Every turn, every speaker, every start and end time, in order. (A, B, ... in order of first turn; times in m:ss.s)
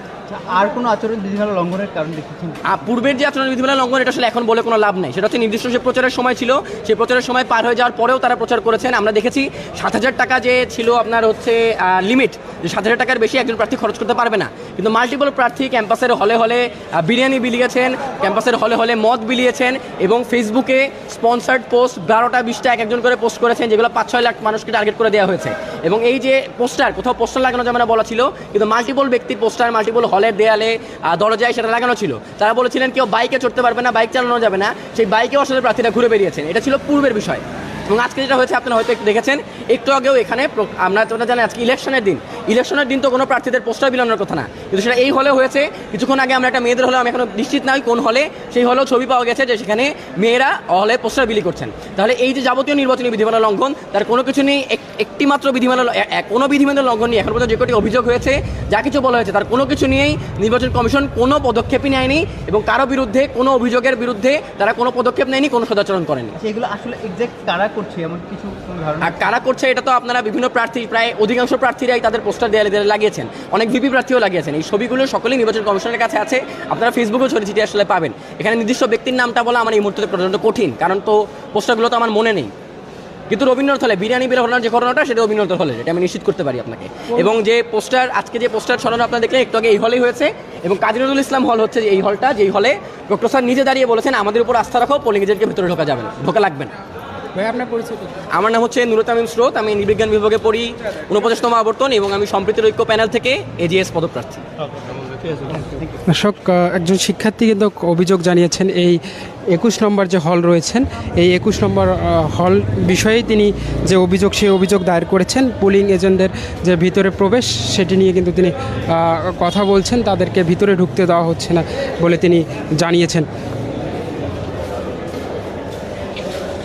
0:00.3-0:02.6 A
0:02.7-1:06.3 B
1:06.4-1:09.3 A
1:09.0-1:22.5 B
1:23.3-1:36.7 B
1:37.3-1:38.1 C
1:38.3-1:44.4 B
1:46.1-1:49.0 C
1:49.5-2:03.3 C